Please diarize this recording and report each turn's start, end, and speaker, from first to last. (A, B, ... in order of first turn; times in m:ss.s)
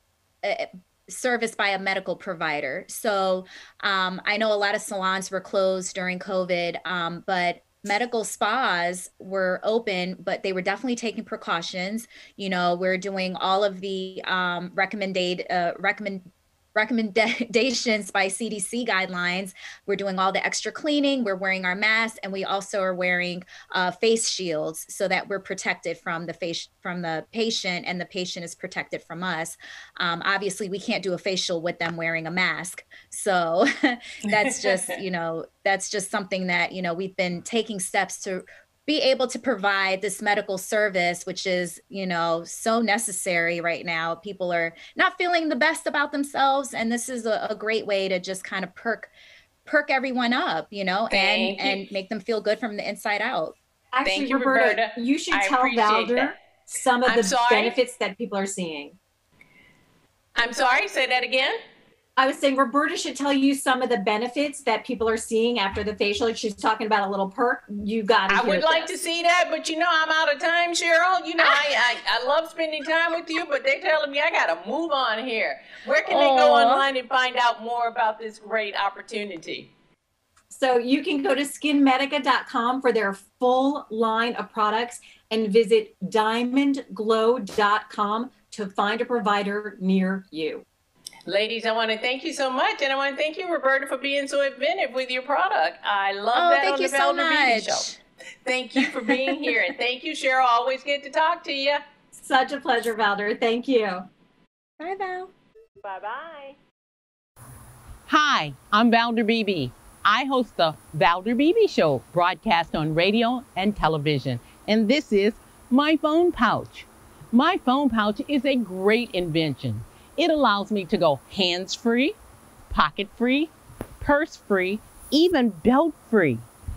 0:00.4-0:49.1 A
0:34.3-0:34.9 B
0:49.6-0:53.6 A
0:51.1-0:51.8 B
0:53.9-0:59.0 C
0:54.0-0:56.3 B
0:57.0-0:57.8 B
1:00.4-1:01.6 B
1:02.2-1:08.9 C
1:08.3-1:19.7 B
1:11.4-1:11.7 A
1:16.0-1:16.8 A
1:20.5-1:30.6 C
1:31.3-1:37.9 B
1:36.3-1:38.0 A
1:38.4-1:41.8 B
1:42.1-1:44.1 C
1:44.8-1:45.3 A
1:45.8-1:46.6 B
1:48.1-2:02.2 D
2:02.7-2:06.4 D